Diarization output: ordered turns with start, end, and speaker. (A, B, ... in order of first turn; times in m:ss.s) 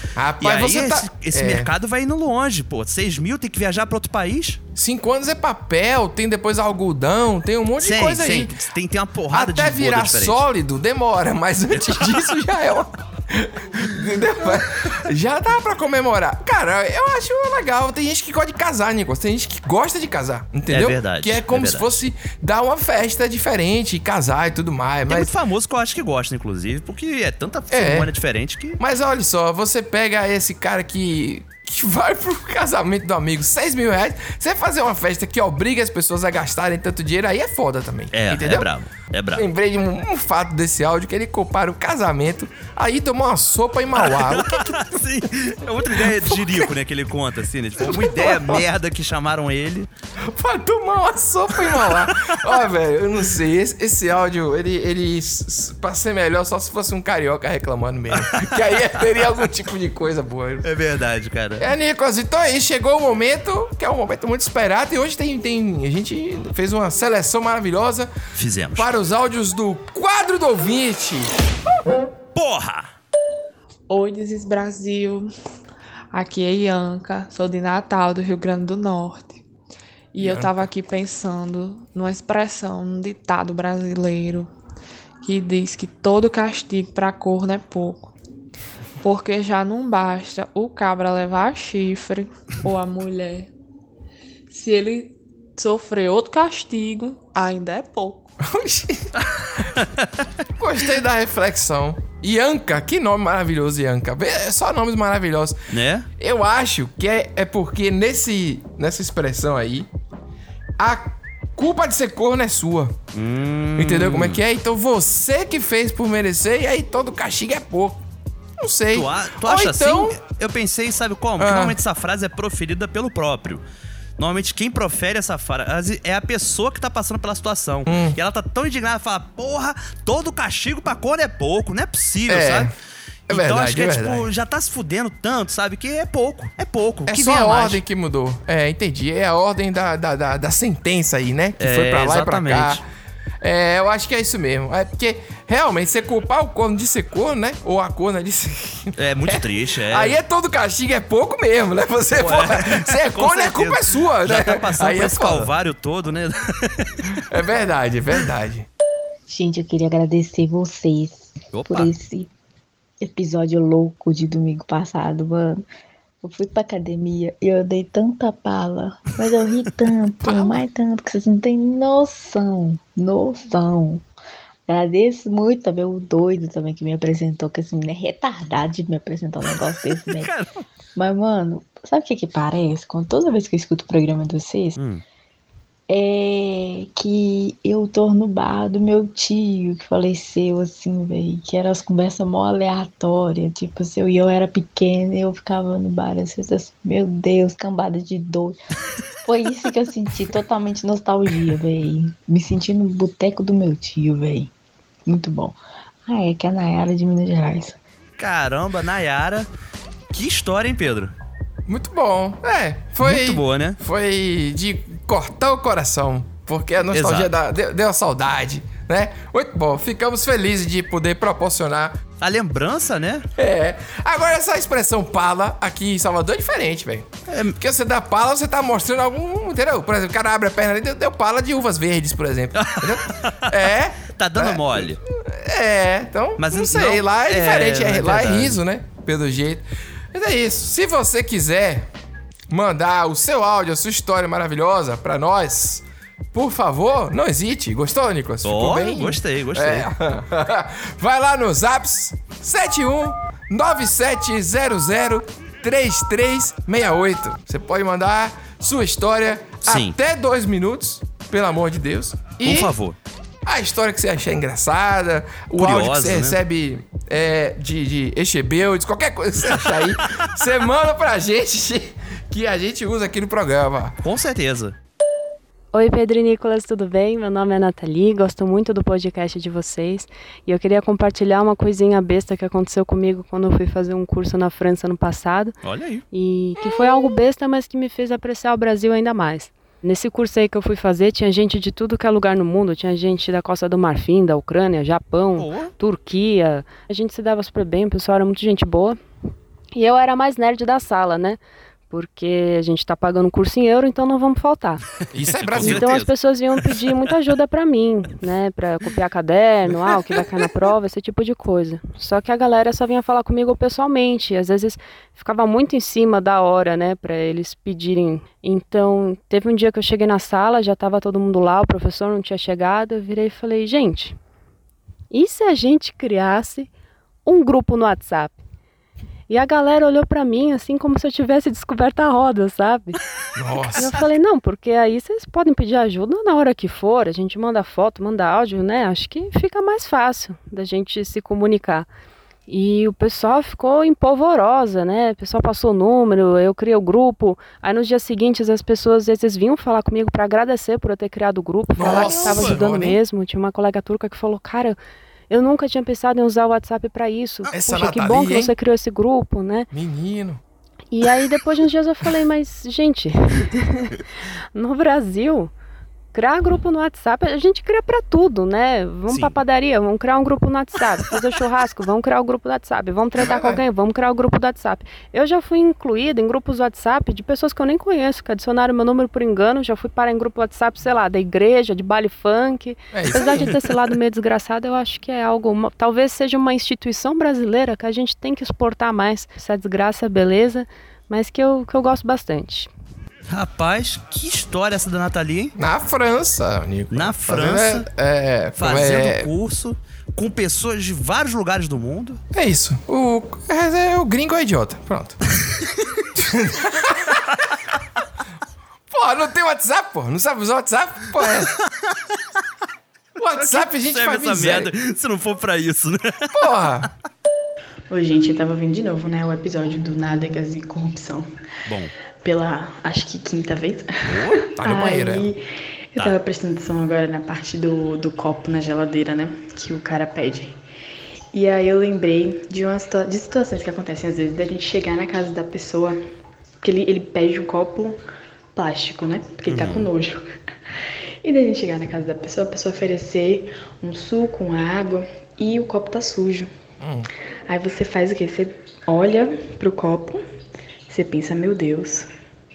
0:00.2-0:01.7 A
0:00.4-0:04.6 B
0:04.8-0:08.5 A
0:07.8-0:10.4 B
0:09.3-0:25.3 A
0:20.7-0:22.0 B
0:25.1-0:28.8 B
0:27.7-0:28.1 A
0:28.8-0:38.7 A
0:38.1-0:39.4 B
0:39.4-0:44.7 A
0:44.0-0:49.9 B
0:45.8-0:46.7 A
0:47.8-0:48.6 A
0:50.3-1:00.6 A
0:58.2-0:58.5 B
1:00.6-1:01.6 B
1:01.6-1:08.1 A
1:08.4-1:08.9 B
1:08.8-1:11.3 A
1:12.3-1:12.9 B
1:13.9-1:15.3 C
1:16.1-1:19.4 C
1:20.1-1:24.5 C
1:20.2-1:20.7 A
1:25.2-1:28.1 C
1:29.0-1:33.5 C
1:34.5-1:38.3 C
1:38.4-1:39.1 A
1:39.4-1:40.1 B
1:40.6-1:45.6 A
1:45.7-1:46.1 B
1:46.2-1:49.9 A
1:50.8-1:53.0 A
1:53.1-1:54.4 B
1:53.8-1:58.0 A
1:58.6-2:00.2 A
1:58.9-2:03.6 B
2:01.4-2:01.8 A
2:04.2-2:12.7 B
2:07.8-2:08.2 A
2:12.3-2:12.7 A
2:13.3-2:17.8 B
2:13.3-2:14.3 A
2:17.1-2:22.8 A
2:21.6-2:22.8 B
2:23.4-2:35.5 A
2:29.0-2:30.2 B
2:32.2-2:37.2 B
2:37.3-2:38.7 A
2:39.3-2:42.3 D
2:41.5-2:41.9 B
2:43.0-2:45.6 D
2:46.2-2:54.0 D
2:50.3-2:50.6 A
2:54.7-3:00.3 D
3:00.1-3:00.5 B
3:01.0-3:04.8 D
3:04.8-3:05.0 B
3:05.9-3:18.6 D
3:19.2-3:24.5 D
3:25.0-3:27.8 D
3:28.2-3:29.5 B
3:30.1-3:31.1 B
3:31.7-3:42.0 A
3:33.0-3:33.8 B
3:36.9-3:37.3 B
3:42.2-3:43.3 B
3:43.4-4:01.9 A
3:47.3-3:47.6 B
3:52.6-3:53.5 B
3:54.1-3:55.0 B
3:56.4-3:58.6 B
4:02.5-4:22.7 A
4:08.4-4:09.9 B
4:19.6-4:19.9 B
4:22.4-4:23.0 B
4:23.4-4:34.0 A
4:25.6-4:26.4 B
4:34.0-4:34.7 B
4:35.7-4:45.5 E
4:45.6-4:46.0 B
4:46.1-4:59.0 E
4:55.4-4:55.7 B
4:59.7-5:01.4 E
5:01.9-5:04.8 E
5:05.1-5:05.9 A
5:05.3-5:06.1 B
5:05.6-5:24.2 E
5:25.1-5:26.7 E
5:27.2-5:28.4 E
5:29.3-5:33.0 E
5:33.4-5:33.9 A
5:33.7-5:41.9 E
5:42.5-5:54.8 E
5:51.8-5:53.0 A
5:51.8-5:52.6 B
5:55.3-5:59.7 E
5:57.5-5:58.5 A
5:59.7-6:00.4 A
6:00.9-6:04.0 E
6:04.5-6:05.5 E
6:06.1-6:32.7 E
6:09.1-6:09.4 B
6:13.2-6:13.6 A
6:22.9-6:23.6 A
6:23.3-6:23.5 B
6:33.3-6:35.5 B
6:35.6-6:39.3 A
6:36.9-6:37.8 B
6:38.6-6:42.2 B
6:42.3-6:45.2 A
6:46.1-6:47.4 A
6:48.9-6:51.5 A
6:53.2-6:54.7 A
6:53.4-6:56.4 B
6:56.3-6:56.9 A
6:57.9-7:01.3 F
7:01.7-7:01.9 B
7:02.2-7:05.4 F
7:04.0-7:04.4 B
7:04.6-7:05.3 A
7:05.9-7:10.6 F
7:11.3-7:16.0 F
7:16.6-7:18.0 F
7:18.5-7:20.2 F
7:19.4-7:19.9 B
7:21.2-7:26.5 F
7:26.8-7:27.1 A
7:27.5-7:30.2 F
7:30.9-7:32.1 F